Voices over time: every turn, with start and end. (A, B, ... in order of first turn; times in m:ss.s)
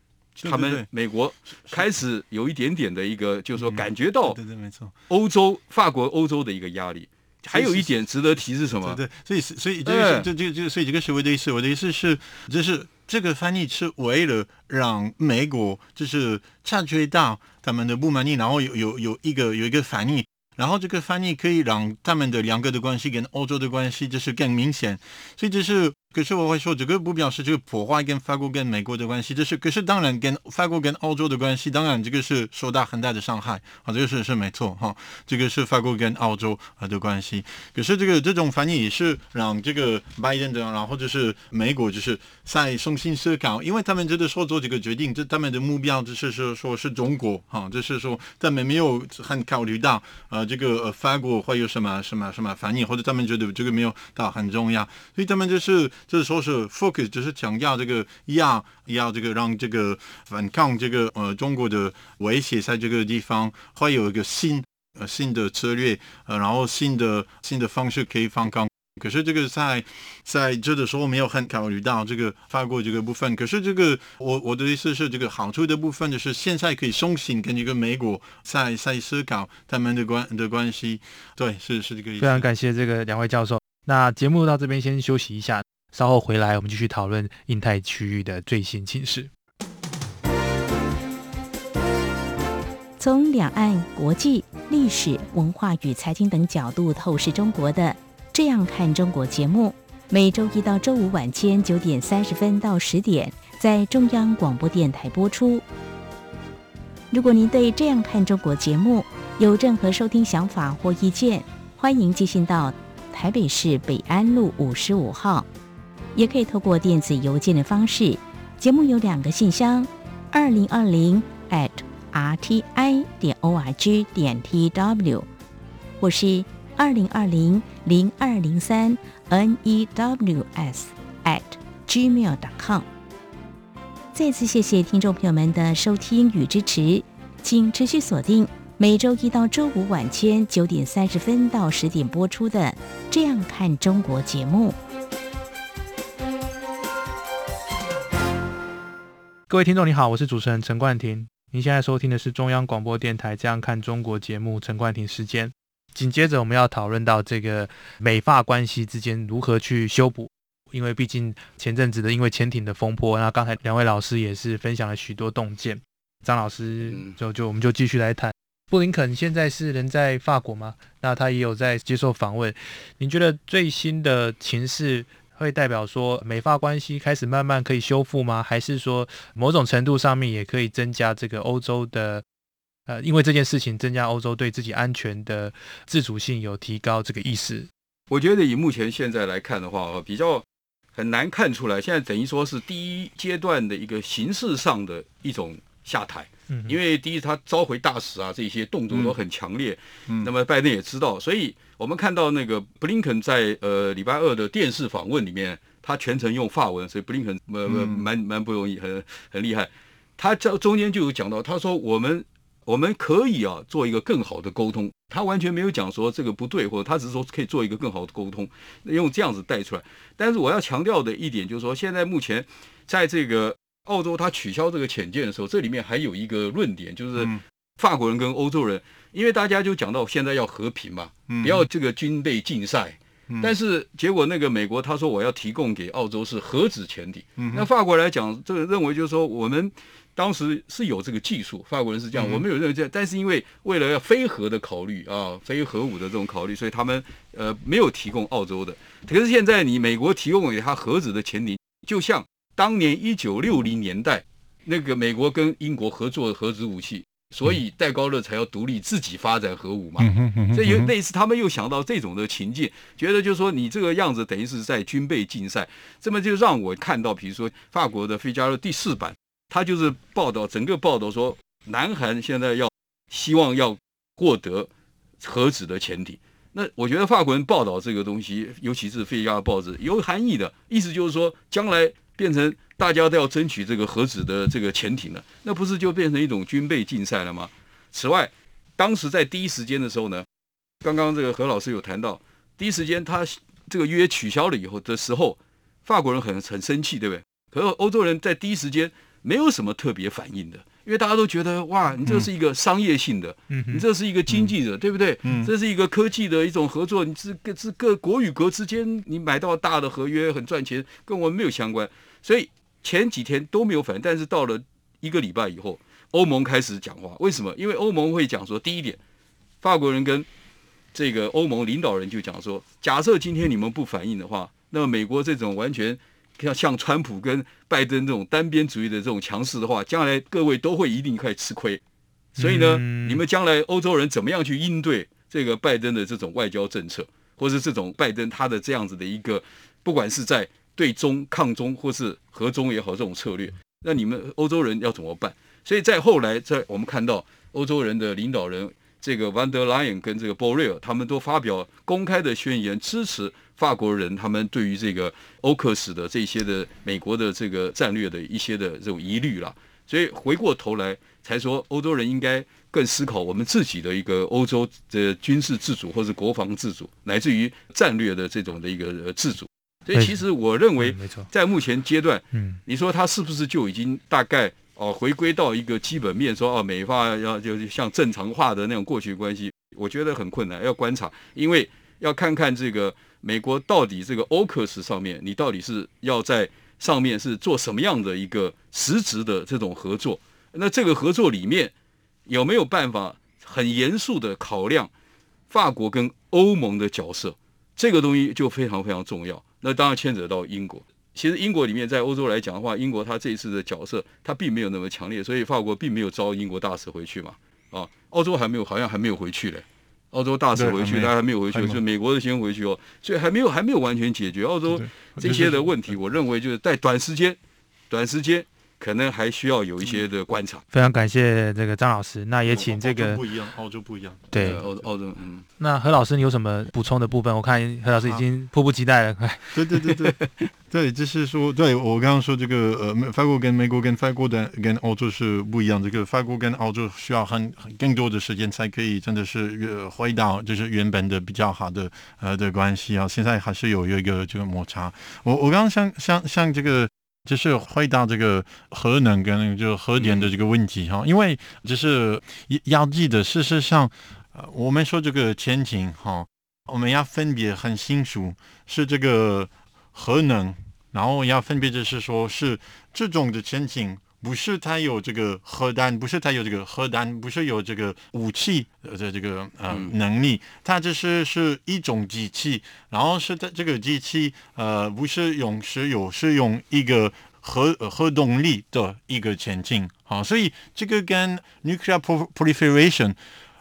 0:00.4-0:00.9 A
0:00.4-0:04.4 B
0:03.6-0:04.9 A
0:05.1-0:09.0 B
0:07.4-0:07.9 A
0:08.8-1:22.4 A
0:09.8-0:10.3 B
1:22.2-1:29.3 C
1:33.0-1:45.6 D
1:47.1-1:55.5 D
1:56.1-2:05.3 D
2:06.0-2:12.8 D
2:14.1-2:24.8 D
2:29.5-3:02.2 C
2:46.8-2:47.2 B
3:02.9-3:07.7 C
3:08.1-4:34.7 B
3:16.5-3:16.8 C
3:18.9-3:19.2 A
3:27.6-3:28.0 A
3:51.3-3:51.7 A
3:57.4-3:57.7 A
4:02.1-4:02.4 A
4:20.0-4:20.9 A
4:35.2-4:50.2 B
4:50.8-5:19.0 B
5:03.5-5:03.8 C
5:05.2-5:05.5 A
5:19.6-5:20.3 B
5:20.9-5:31.8 B
5:32.4-5:33.2 C
5:32.4-6:31.7 B
6:10.8-6:11.3 C
6:12.3-6:12.6 C
6:32.3-6:34.9 B
6:35.5-6:57.4 B
6:50.5-6:51.8 A
6:54.7-6:55.7 A
6:57.9-7:00.6 B
7:00.7-7:03.2 C
7:02.5-7:04.8 A
7:04.3-7:04.6 C
7:04.4-7:05.4 B
7:05.6-7:09.4 C
7:09.5-7:10.2 A
7:10.7-8:03.2 A
7:30.0-7:30.3 B